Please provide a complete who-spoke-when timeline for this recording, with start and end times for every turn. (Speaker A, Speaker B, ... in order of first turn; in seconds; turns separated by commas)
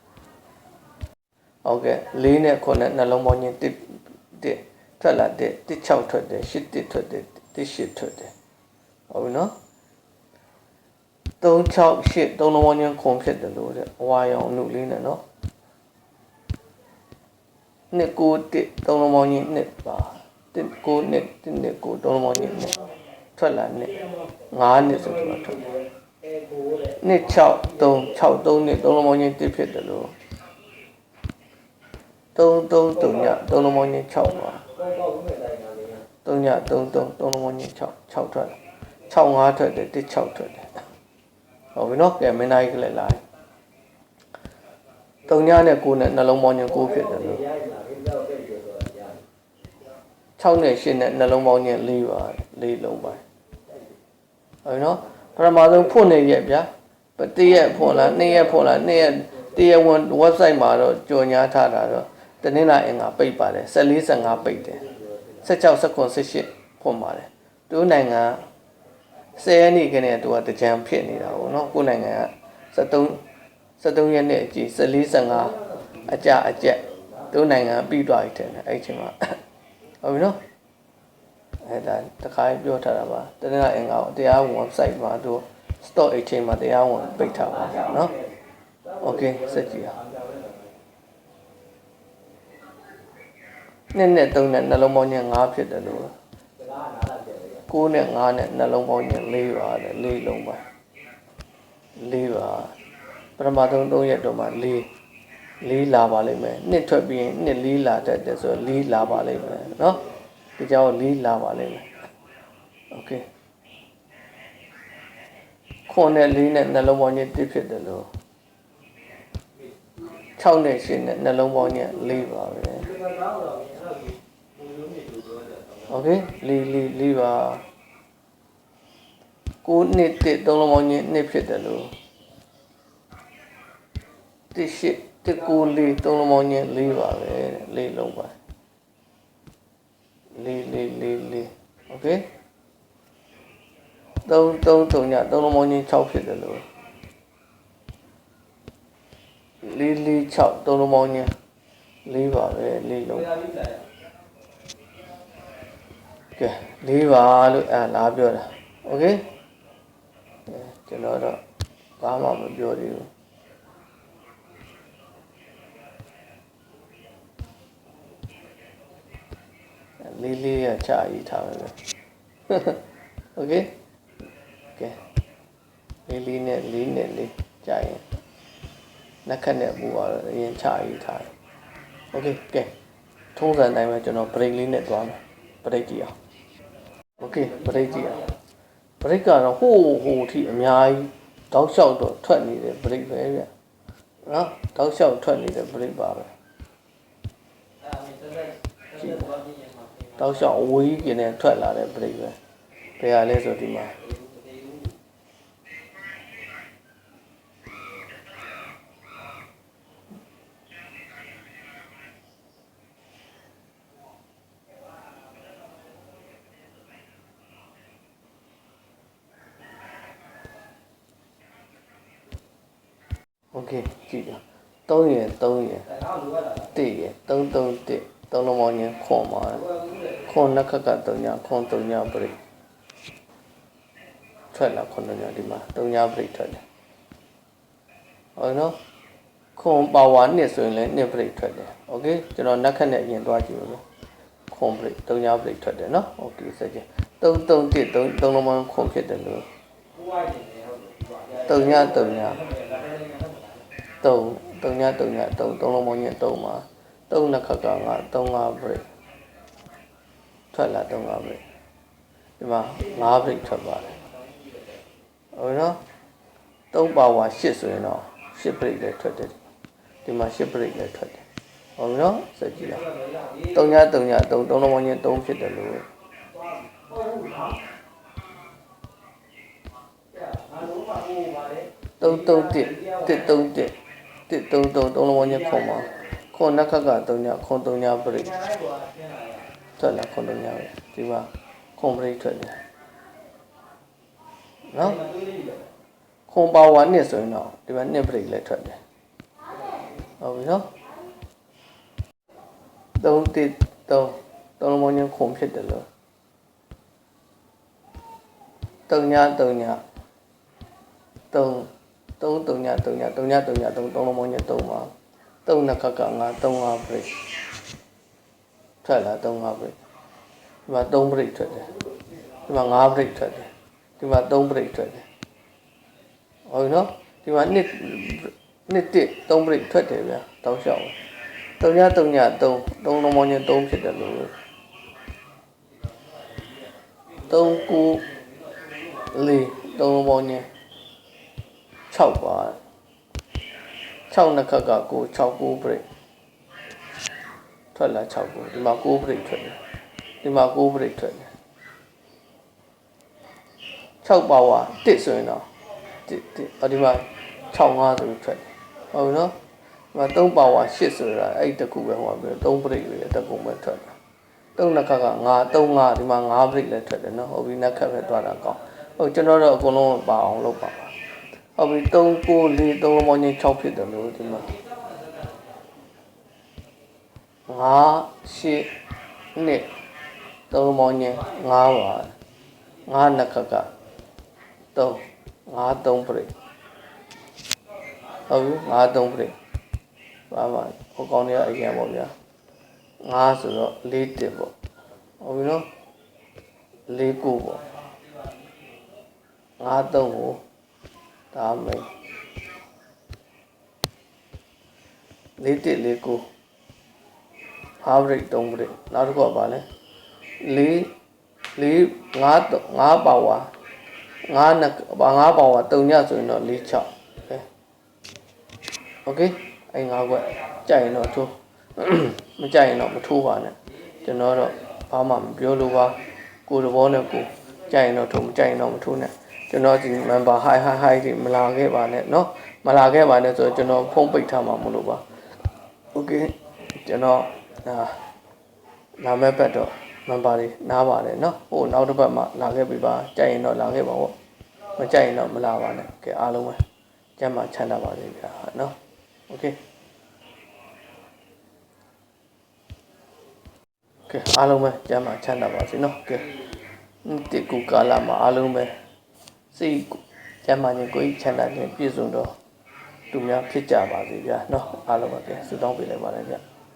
Speaker A: 1.6-8.3, Speaker A: 9.1-9.5, Speaker A: 11.4-15.2, Speaker A: 17.9-22.8, Speaker A: 23.4-25.7, Speaker B: 23.9-28.5, Speaker A: 27.0-30.1, Speaker A: 32.4-34.6, Speaker B: 33.0-33.6, Speaker B: 34.5-36.1, Speaker A: 36.2-38.6, Speaker A: 39.1-40.8, Speaker A: 41.8-43.2, Speaker A: 45.3-47.5, Speaker B: 46.6-49.2, Speaker A: 50.4-53.2, Speaker A: 54.6-64.9, Speaker B: 57.5-59.3, Speaker B: 64.8-65.0, Speaker A: 65.4-68.4, Speaker A: 69.3-73.2, Speaker A: 73.8-79.4, Speaker B: 75.2-77.3, Speaker A: 80.0-80.4, Speaker A: 81.6-88.1, Speaker B: 87.0-90.7, Speaker A: 89.0-90.0, Speaker A: 93.9-96.1, Speaker B: 96.6-97.7, Speaker A: 97.7-100.6, Speaker A: 102.0-102.7, Speaker A: 103.4-104.9, Speaker A: 105.6-110.0, Speaker B: 109.3-109.7, Speaker A: 110.6-111.9, Speaker A: 112.9-113.2, Speaker A: 115.9-118.1, Speaker A: 120.4-122.9, Speaker B: 121.7-125.9, Speaker A: 125.9-127.6, Speaker A: 129.6-131.9, Speaker A: 134.5-138.3, Speaker A: 140.3-142.3, Speaker A: 144.2-146.7, Speaker A: 149.6-151.3, Speaker A: 152.1-153.3, Speaker B: 153.1-153.9, Speaker A: 156.4-159.2, Speaker A: 160.5-161.4, Speaker A: 162.0-163.1, Speaker A: 170.0-171.8, Speaker A: 172.5-172.8, Speaker A: 173.4-173.8, Speaker A: 176.1-178.1, Speaker A: 179.2-181.3, Speaker A: 182.1-182.7, Speaker A: 183.4-186.1, Speaker A: 187.2-188.3, Speaker B: 187.2-188.3, Speaker A: 189.0-193.5, Speaker A: 194.2-196.3, Speaker B: 197.8-200.7, Speaker A: 199.0-199.3, Speaker A: 200.2-202.4, Speaker A: 203.0-204.0, Speaker B: 204.0-204.9, Speaker A: 223.5-225.9, Speaker B: 225.9-226.7, Speaker A: 226.7-229.7, Speaker B: 229.5-230.3, Speaker A: 230.2-232.4, Speaker A: 234.5-236.6, Speaker A: 238.4-238.8, Speaker A: 239.6-243.8, Speaker A: 244.5-249.5, Speaker B: 249.9-253.7, Speaker A: 251.5-252.4, Speaker A: 254.0-258.8, Speaker A: 260.5-261.4, Speaker A: 262.4-263.9, Speaker B: 262.7-264.9, Speaker A: 265.4-265.8, Speaker A: 266.7-269.4, Speaker A: 270.1-271.2, Speaker A: 271.8-272.9, Speaker B: 272.6-273.8, Speaker A: 273.5-275.9, Speaker B: 276.3-277.6, Speaker B: 280.1-283.4, Speaker A: 282.0-283.8, Speaker A: 284.3-288.3, Speaker B: 285.1-286.1, Speaker B: 288.1-289.5, Speaker A: 289.8-292.6, Speaker A: 294.7-295.0, Speaker B: 294.8-295.7, Speaker A: 296.3-298.8, Speaker A: 300.2-300.7, Speaker A: 303.0-305.9, Speaker A: 308.9-309.8, Speaker A: 311.3-314.9, Speaker A: 315.4-317.2, Speaker A: 318.8-319.8, Speaker A: 320.7-321.7, Speaker A: 322.5-325.1, Speaker A: 326.5-330.9, Speaker A: 331.6-334.3, Speaker A: 337.2-338.1, Speaker B: 337.2-339.1, Speaker A: 339.1-340.5, Speaker A: 341.9-342.6, Speaker A: 344.1-345.9, Speaker A: 347.8-349.6, Speaker A: 350.2-351.3, Speaker A: 354.0-355.5, Speaker A: 356.1-359.3, Speaker A: 359.9-364.0, Speaker A: 364.6-370.9, Speaker A: 371.6-374.5, Speaker B: 374.4-375.6, Speaker A: 377.5-378.7, Speaker A: 379.4-379.7, Speaker A: 380.5-382.1, Speaker A: 382.9-383.7, Speaker A: 384.8-386.3, Speaker A: 388.3-389.4, Speaker A: 390.3-392.1, Speaker A: 393.0-394.5, Speaker A: 395.2-395.7, Speaker A: 396.9-397.6, Speaker B: 397.9-398.7, Speaker A: 399.6-400.4, Speaker A: 401.3-401.9, Speaker A: 405.4-406.2, Speaker A: 407.8-409.6, Speaker A: 410.4-410.9, Speaker A: 411.6-413.5, Speaker A: 414.3-417.4, Speaker A: 419.1-435.0, Speaker A: 435.9-438.0, Speaker A: 439.0-444.1, Speaker A: 444.8-446.6, Speaker A: 447.2-448.8, Speaker A: 449.3-449.6, Speaker A: 454.1-456.3, Speaker A: 457.0-458.7, Speaker A: 459.5-462.3, Speaker A: 463.1-466.4